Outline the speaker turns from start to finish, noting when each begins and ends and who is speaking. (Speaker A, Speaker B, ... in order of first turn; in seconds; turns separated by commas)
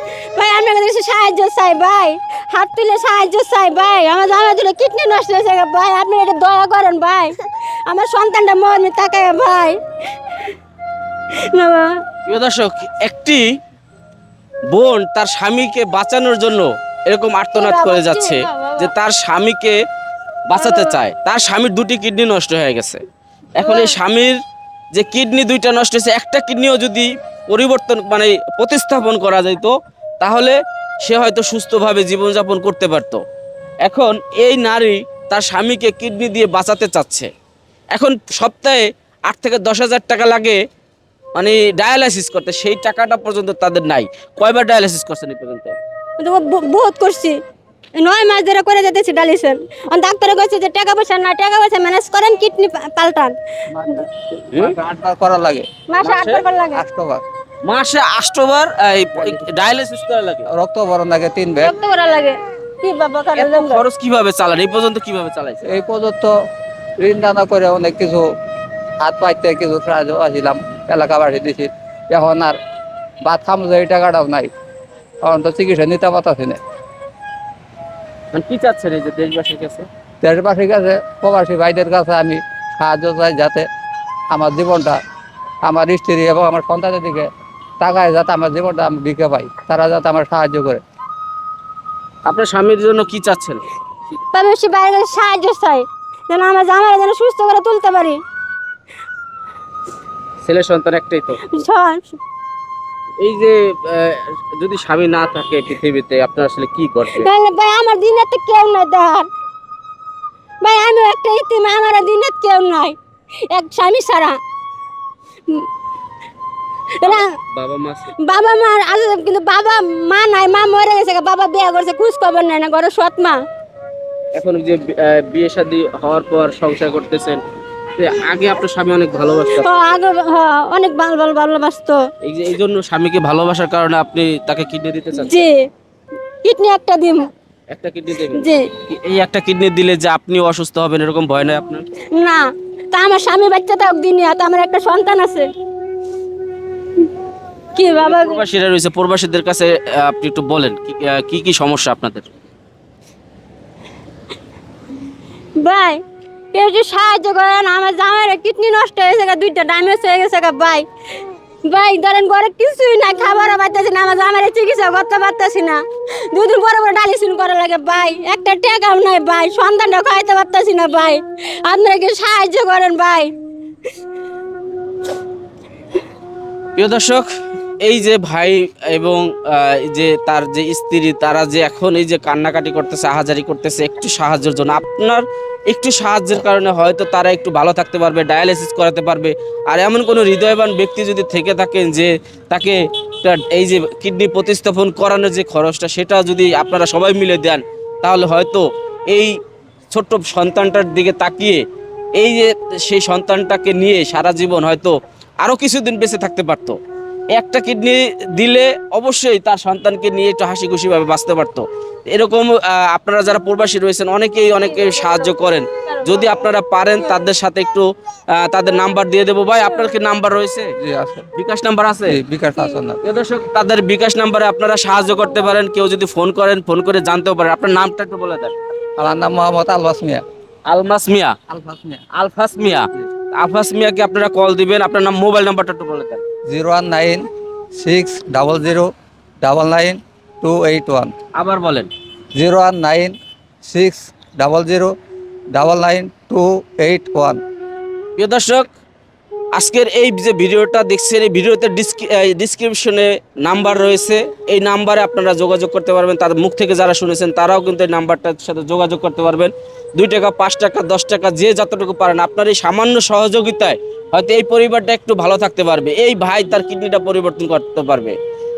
Speaker A: 0.3-7.3, Speaker A: 7.9-9.8, Speaker A: 11.5-11.9, Speaker B: 12.3-13.4, Speaker B: 14.7-19.8, Speaker A: 17.5-18.9, Speaker B: 20.5-23.0, Speaker A: 20.6-21.0, Speaker B: 23.6-24.4, Speaker A: 23.6-23.9, Speaker B: 24.9-33.2, Speaker B: 33.8-37.3, Speaker B: 37.9-40.6, Speaker B: 41.3-45.8, Speaker A: 46.2-47.4, Speaker A: 48.0-53.3, Speaker C: 53.7-55.6, Speaker A: 55.9-56.8, Speaker B: 56.0-56.5, Speaker C: 56.7-57.2, Speaker B: 57.6-60.5, Speaker C: 60.5-61.7, Speaker A: 61.6-63.8, Speaker B: 63.4-65.7, Speaker C: 65.6-66.3, Speaker C: 67.0-68.2, Speaker C: 69.0-72.5, Speaker C: 73.2-74.5, Speaker C: 75.2-76.6, Speaker B: 78.3-79.9, Speaker C: 80.2-83.7, Speaker C: 84.3-85.0, Speaker C: 85.7-87.3, Speaker C: 87.8-90.8, Speaker B: 92.2-93.6, Speaker A: 94.3-98.2, Speaker B: 100.4-101.4, Speaker A: 101.5-102.2, Speaker B: 103.2-107.3, Speaker A: 107.1-109.3, Speaker A: 110.6-113.0, Speaker A: 113.5-114.4, Speaker A: 117.0-117.3, Speaker B: 117.0-118.1, Speaker A: 118.2-123.4, Speaker B: 124.3-127.4, Speaker B: 128.0-129.9, Speaker A: 129.5-132.0, Speaker B: 132.2-135.5, Speaker A: 135.1-135.6, Speaker A: 136.4-137.2, Speaker B: 137.7-141.8, Speaker A: 138.3-138.6, Speaker A: 142.2-145.5, Speaker A: 147.7-148.4, Speaker B: 148.0-152.3, Speaker A: 155.6-156.0, Speaker A: 156.5-160.8, Speaker A: 161.7-165.8, Speaker A: 166.3-173.3, Speaker B: 176.8-177.3, Speaker B: 177.8-199.3, Speaker B: 199.9-201.6, Speaker B: 202.2-206.8, Speaker B: 207.3-217.8, Speaker A: 214.6-215.3, Speaker A: 215.8-216.4, Speaker B: 218.4-220.7, Speaker C: 220.8-221.2, Speaker B: 221.3-222.2, Speaker C: 222.1-223.0, Speaker B: 223.0-228.5, Speaker A: 225.0-225.5, Speaker C: 229.0-230.2, Speaker B: 230.7-231.3, Speaker C: 231.5-232.0, Speaker B: 232.1-236.2, Speaker C: 236.5-238.9, Speaker C: 239.4-241.1, Speaker B: 241.3-241.9, Speaker C: 242.3-244.9, Speaker C: 245.6-247.4, Speaker B: 248.2-248.7, Speaker B: 249.5-268.1